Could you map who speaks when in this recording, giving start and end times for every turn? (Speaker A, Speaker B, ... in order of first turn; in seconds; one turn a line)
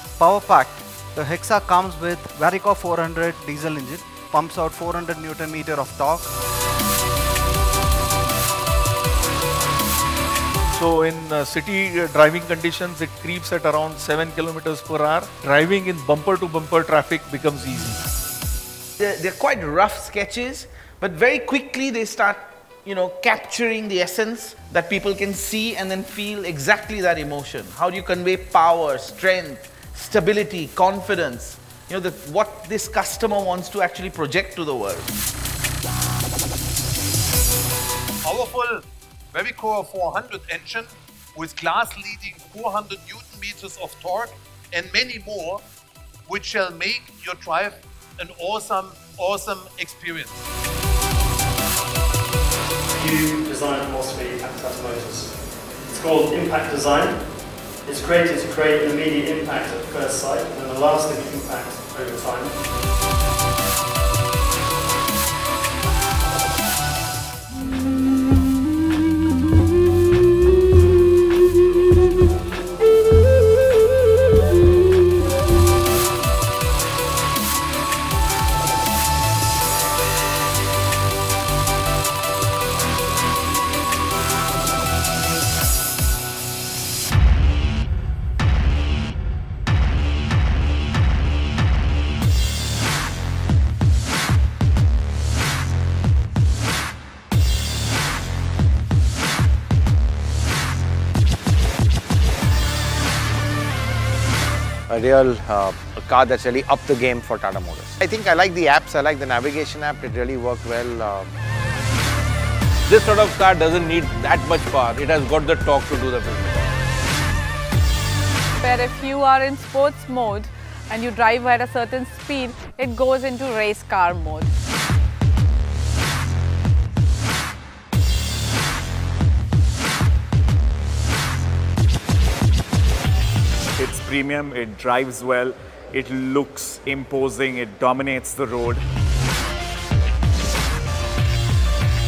Speaker A: 0.2-6.3
Speaker B: 10.7-18.0
Speaker C: 19.0-35.1
Speaker D: 38.2-45.6
Speaker D: 46.3-50.4
Speaker E: 52.9-55.4
Speaker E: 55.9-57.2
Speaker E: 57.9-62.6
Speaker F: 104.9-111.3
Speaker G: 112.9-116.7
Speaker H: 118.6-124.5
Speaker I: 133.8-138.8